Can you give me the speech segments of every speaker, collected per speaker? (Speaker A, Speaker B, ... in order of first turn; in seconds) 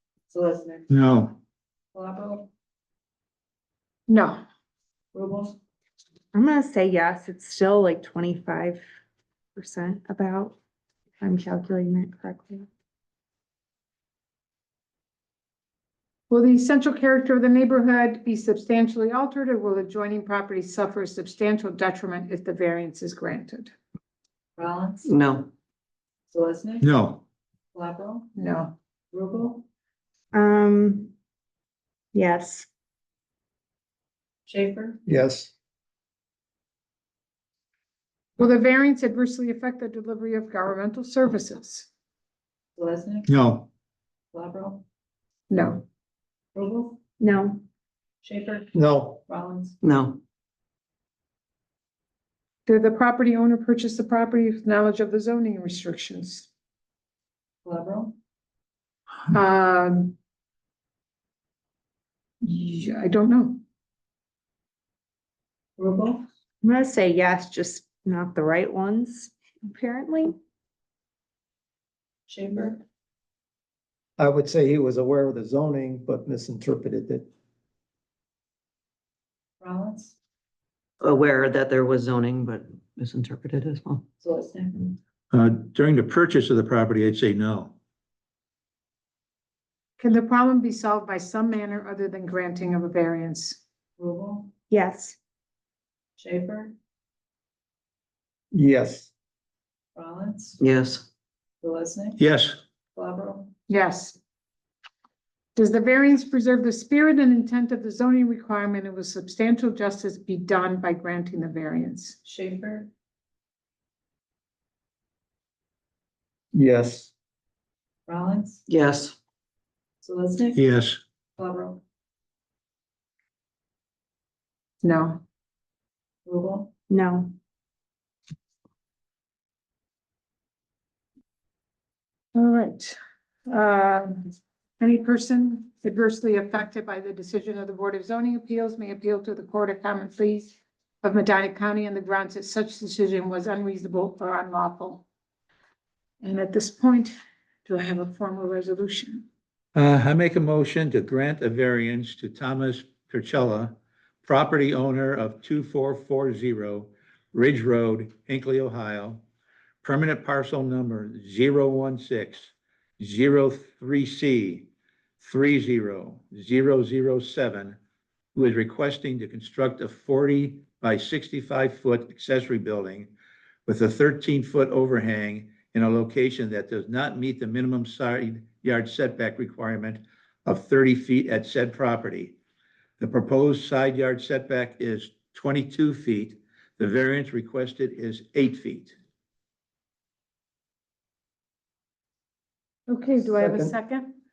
Speaker A: 0.3-0.9, 1.9-2.5, 5.1-5.6, 24.6-25.1, 26.3-26.9, 27.7-28.3, 29.1-29.7, 34.5-35.0, 42.8-43.3, 44.3-44.8, 46.5-47.0, 48.2-48.7, 49.3-49.8, 57.6-58.1, 65.8-66.2, 72.3-72.8, 79.6-80.2, 84.2-85.0, 94.0-94.5, 96.2-96.7, 99.9-100.6, 101.6-102.2, 102.9-103.5, 112.2-112.9, 118.1-118.7, 120.0-120.6, 121.4-121.8, 126.2-126.7
Speaker B: 0.9-1.3, 26.8-27.2, 43.3-43.7, 85.3-87.7, 102.2-102.6, 120.5-121.0, 149.7-159.2, 159.8-164.7, 165.2-167.8, 168.3-173.1, 173.7-182.3, 183.0-188.9
Speaker C: 4.1-4.4, 16.3-23.7, 28.4-28.7, 38.4-41.9, 45.5-45.8, 52.7-56.5, 59.3-60.1, 62.4-63.6, 90.0-93.6, 103.7-104.2, 105.5-112.2, 124.8-125.2, 132.3-133.0, 133.5-145.0, 146.2-147.1, 147.7-149.2, 192.9-194.2
Speaker D: 6.3-8.8, 9.6-10.6, 11.2-12.7, 30.3-31.1, 32.1-32.7, 47.2-47.6, 66.6-70.3, 94.7-95.2, 126.9-127.3
Speaker E: 25.1-25.5, 49.8-50.2, 81.0-84.0, 100.6-101.0, 118.7-119.1
Speaker F: 35.0-35.5, 48.7-49.2, 74.2-77.2, 98.5-99.1, 116.5-117.1, 193.3-193.7